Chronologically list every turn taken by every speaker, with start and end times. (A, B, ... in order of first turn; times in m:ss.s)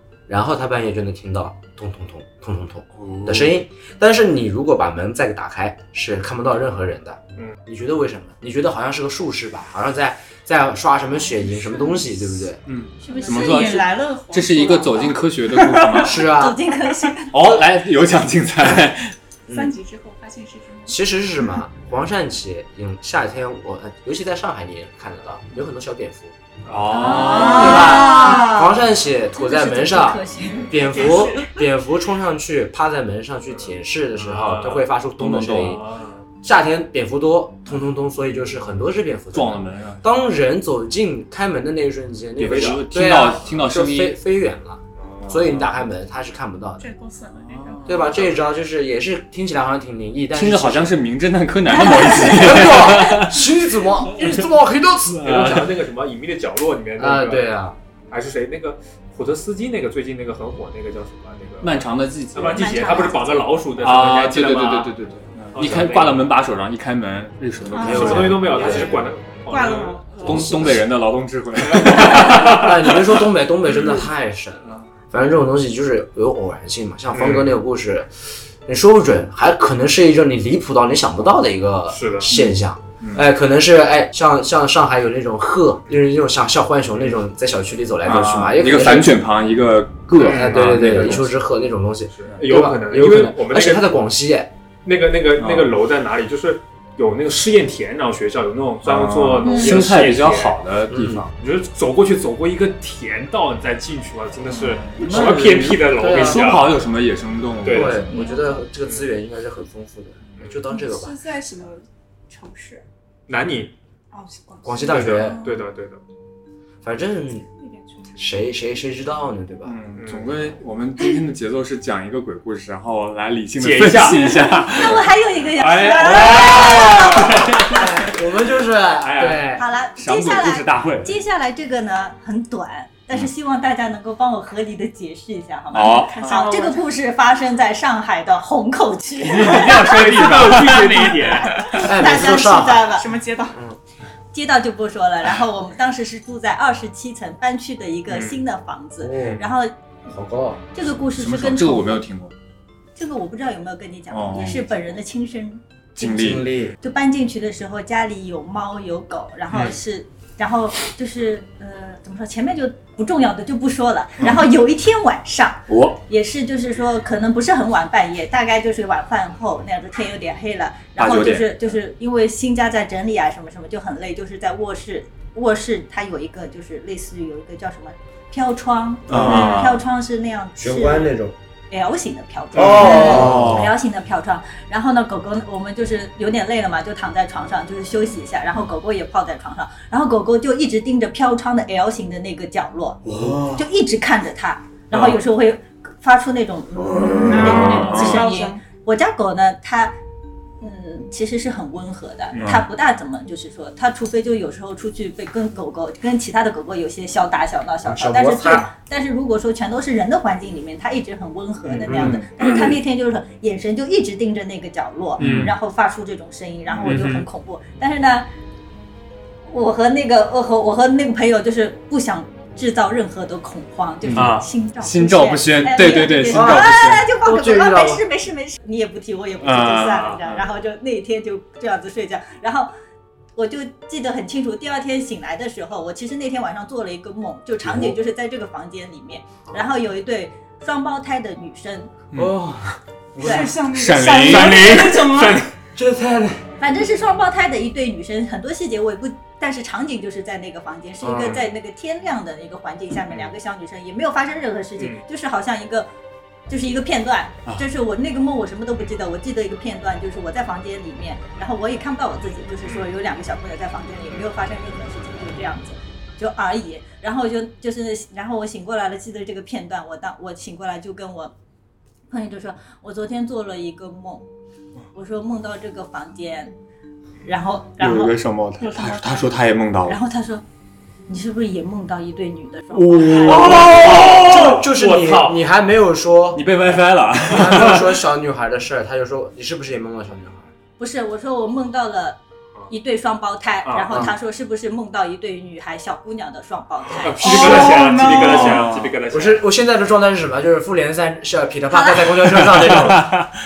0:00.3-0:12.6 A
0:03.0-0:03.6 B
0:11.4-0:12.1 C
0:12.6-0:16.3 B
0:13.0-0:16.1 C
0:13.0-0:13.9 D
0:16.0-0:16.6 A
0:16.2-0:17.3 D
0:17.3-0:19.1 B
0:19.5-0:19.7 A
0:19.5-0:21.0 C
0:20.9-0:26.4 A
0:26.6-0:28.0 B
0:26.7-0:27.0 E
0:27.0-0:28.7 D
0:27.1-0:28.5 C
0:27.3-0:35.8 A
0:29.3-0:30.7 D
0:30.6-0:31.6 C
0:33.6-0:34.9 E
0:35.2-0:35.8 B
0:35.6-0:36.2 E
0:36.4-0:46.9 A
0:39.3-0:40.1 B
0:42.4-0:44.2 B
0:42.5-0:42.8 E
0:45.0-0:45.7 E
0:46.8-0:48.1 C
0:47.4-0:48.2 B
0:47.8-0:51.0 A
0:50.3-0:53.5 B
0:51.9-0:52.3 C
0:52.1-0:55.7 A
0:55.2-0:57.5 E
0:57.0-0:57.8 A
0:58.1-1:04.9 E
1:01.6-1:02.8 B
1:02.6-1:03.5 C
1:02.8-1:03.2 D
1:03.8-1:08.8 B
1:05.5-1:06.3 E
1:07.7-1:08.9 C
1:07.8-1:09.0 A
1:07.8-1:10.4 E
1:09.5-1:10.5 C
1:10.2-1:13.0 B
1:10.2-1:10.8 A
1:11.6-1:12.7 E
1:12.0-1:18.1 A
1:17.1-1:17.5 E
1:18.6-1:29.2 A
1:21.9-1:22.3 E
1:28.0-1:31.3 B
1:30.2-1:31.2 E
1:30.2-1:34.5 A
1:32.1-1:34.0 E
1:34.8-1:40.6 E
1:35.4-1:35.7 B
1:38.8-1:41.3 B
1:40.9-1:41.2 A
1:41.4-1:46.7 E
1:44.5-1:48.1 B
1:45.9-1:46.5 A
1:47.6-1:48.1 E
1:47.6-1:51.2 A
1:48.1-1:48.7 C
1:50.7-1:52.8 C
1:53.3-1:53.7 E
1:54.1-1:55.6 C
1:54.6-1:55.4 A
1:54.8-1:56.0 E
1:56.8-1:57.5 A
1:57.6-1:58.4 C
1:58.2-1:59.8 A
1:59.6-2:07.9 B
2:00.0-2:00.5 E
2:03.6-2:05.0 E
2:04.6-2:07.5 D
2:05.5-2:08.0 E
2:07.7-2:09.6 A
2:09.0-2:09.5 E
2:09.6-2:19.8 D
2:10.0-2:11.2 B
2:15.7-2:16.3 B
2:15.8-2:16.9 C
2:19.2-2:21.4 B
2:19.5-2:21.7 E
2:21.7-2:23.0 D
2:21.7-2:22.9 A
2:22.8-2:23.6 C
2:23.5-2:23.8 A
2:24.3-2:29.7 D
2:28.1-2:28.4 E
2:29.0-2:29.4 A
2:30.0-2:30.6 A
2:30.7-2:32.0 D
2:31.2-2:32.3 B
2:33.0-3:01.1 D
2:34.1-2:34.6 B
2:36.0-2:36.5 B
2:36.0-2:36.7 A
2:45.7-2:46.0 B
2:51.0-2:51.5 B
2:59.1-2:59.5 A
2:59.1-2:59.8 B
3:00.6-3:01.4 A
3:01.7-3:20.0 D
3:02.5-3:03.7 A
3:02.6-3:02.9 E
3:02.6-3:03.7 B
3:13.0-3:13.6 B
3:17.3-3:18.6 C
3:17.3-3:18.3 B
3:20.6-3:38.3 D
3:22.3-3:22.6 B
3:27.8-3:28.7 A
3:31.7-3:32.0 E
3:31.9-3:32.3 B
3:35.2-3:35.5 B
3:35.2-3:35.5 E
3:36.8-3:37.2 E
3:39.5-3:52.7 D
3:44.0-3:47.0 B
3:44.1-3:44.4 E
3:46.3-3:48.0 A
3:49.4-3:50.0 B
3:49.5-3:50.4 E
3:53.4-4:01.9 D
3:57.6-3:58.0 A
4:02.1-4:03.6 A
4:03.2-4:05.4 C
4:03.2-4:03.5 D
4:03.7-4:04.8 B
4:04.2-4:05.5 E
4:05.8-4:06.5 A
4:06.6-4:15.9 D
4:11.0-4:11.5 A
4:14.8-4:15.0 E
4:16.5-4:31.3 D
4:22.6-4:22.9 E
4:32.1-4:34.2 D
4:34.9-4:36.5 D
4:37.2-4:38.2 D
4:37.8-4:40.0 B
4:38.6-4:39.3 C
4:39.8-4:40.4 D
4:41.1-4:44.2 D
4:42.7-4:44.6 B
4:43.3-4:45.4 E
4:43.3-4:46.5 A
4:46.3-4:47.9 B
4:47.2-4:50.5 A
4:50.8-4:57.7 D
4:53.6-4:54.1 E
4:53.9-4:54.1 A
4:57.0-4:59.4 E
4:57.2-4:58.7 C
4:57.2-4:58.3 A
4:58.3-4:58.9 B
4:59.1-5:03.1 A
5:01.7-5:02.2 D
5:02.7-5:03.3 B